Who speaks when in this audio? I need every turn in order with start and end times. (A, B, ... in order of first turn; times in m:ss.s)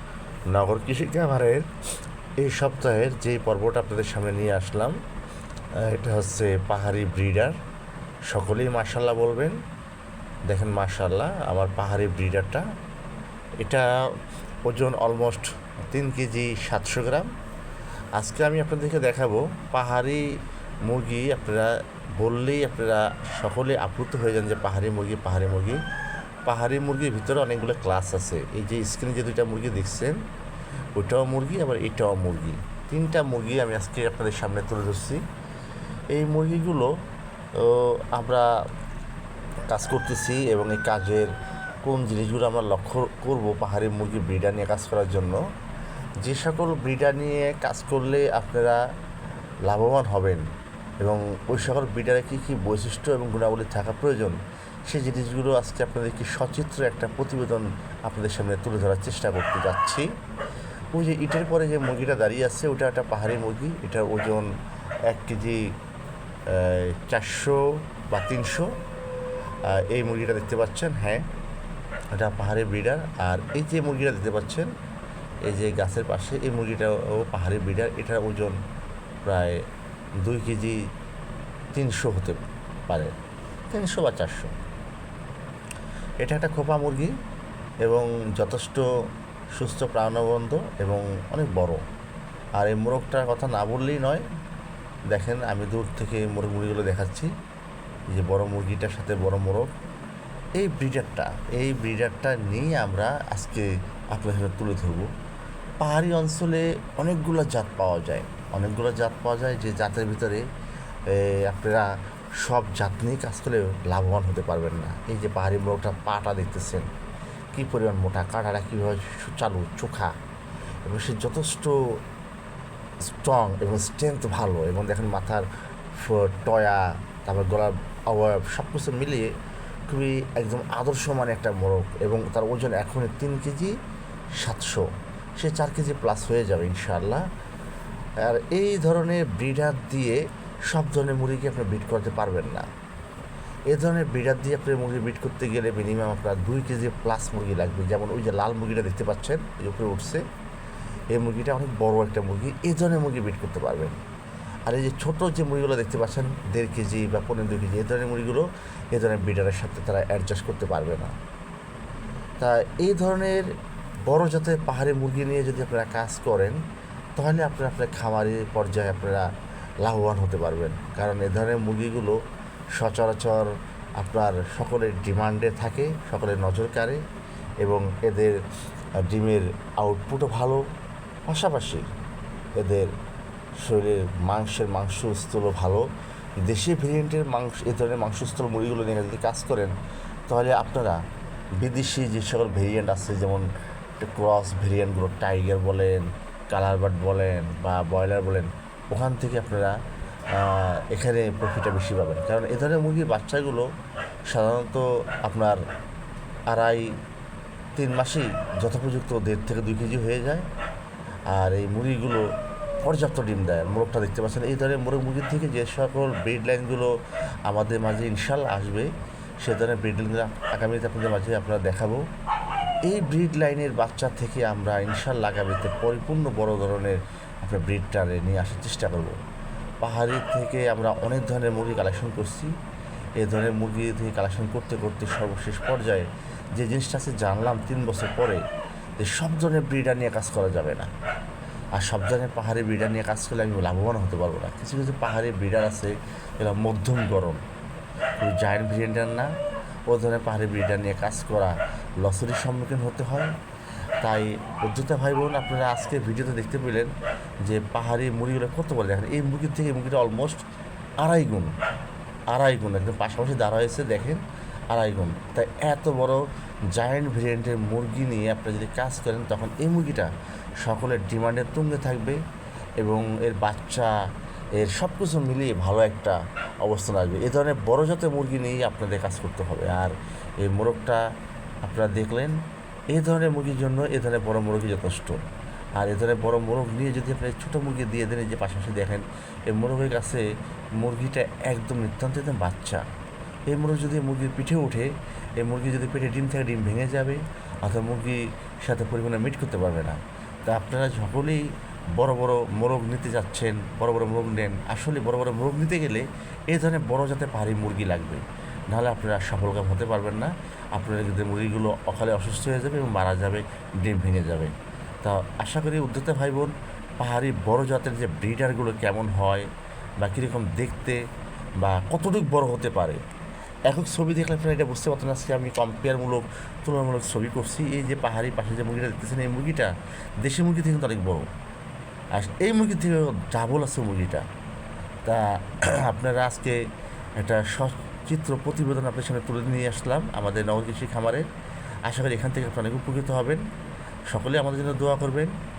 0:00.5-0:01.7 A
0:02.4-0:05.0 A
0:05.8-0:07.6 A
0:08.3-0:09.6 A
0:10.5-0:12.7 A
0:13.6-0:13.9 A
0:14.6-0:17.3 A
0:18.2-0:20.3 A
0:20.8-0:25.8 A
0:26.5-0:30.2 A
0:31.0-0:35.2 A
0:36.1-0:36.9 A
0:37.6-0:38.6 A
0:39.7-0:41.3 A
0:41.8-0:45.4 A
0:46.2-0:48.8 A
0:49.7-0:50.4 A
0:51.0-0:54.4 A
0:54.9-1:00.1 A
1:00.9-1:04.5 A
1:05.1-1:05.7 A
1:06.5-1:08.7 A
1:09.6-1:11.3 A
1:12.1-1:14.7 A
1:15.4-1:18.6 A
1:19.2-1:19.6 A
1:20.2-1:20.8 A
1:21.7-1:23.1 A
1:23.7-1:24.5 A
1:26.2-1:27.1 A
1:27.8-1:28.9 A
1:29.5-1:31.8 A
1:32.6-1:34.2 A
1:35.1-1:37.3 A
1:38.1-1:39.7 A
1:40.6-1:45.1 A
1:45.8-1:50.4 A
1:51.1-1:56.9 A
1:57.5-2:00.2 A
2:00.8-2:01.8 A
2:03.0-2:09.3 A
2:09.9-2:13.8 A
2:14.4-2:17.3 A
2:18.2-2:22.7 A
2:23.7-2:30.2 A
2:31.1-2:34.0 A
2:34.7-2:41.2 A
2:42.4-2:43.5 A
2:44.1-2:46.6 A
2:47.2-2:49.3 A
2:49.8-2:52.2 A
2:52.8-2:57.0 A
2:57.6-2:58.4 A
2:59.0-3:00.6 A
3:01.3-3:01.9 A
3:02.6-3:02.9 A
3:03.6-3:05.8 A
3:06.4-3:09.7 A
3:10.3-3:11.0 A
3:11.6-3:13.5 A
3:14.0-3:19.8 A
3:20.3-3:23.7 A
3:24.3-3:25.6 A
3:26.5-3:27.0 A
3:27.8-3:30.5 A
3:31.3-3:32.3 A
3:32.8-3:37.0 A
3:37.5-3:42.1 A
3:42.8-3:49.2 A
3:49.8-3:52.5 A
3:53.2-3:58.4 A
3:59.0-4:00.9 A
4:01.8-4:07.4 A
4:08.2-4:09.3 A
4:09.9-4:13.3 A
4:14.0-4:20.4 A
4:21.0-4:21.5 A
4:22.3-4:32.2 A
4:32.8-4:34.0 A
4:34.6-4:41.0 A
4:41.6-4:42.4 A
4:42.9-4:45.2 A
4:45.8-4:50.2 A
4:50.8-4:52.9 A
4:53.5-5:19.5 A
5:20.0-5:21.0 A
5:21.6-5:23.0 A
5:23.7-5:31.3 A
5:32.1-5:34.2 A
5:35.0-5:36.6 A
5:37.2-5:41.3 A
5:41.9-5:43.4 A
5:44.1-5:45.3 A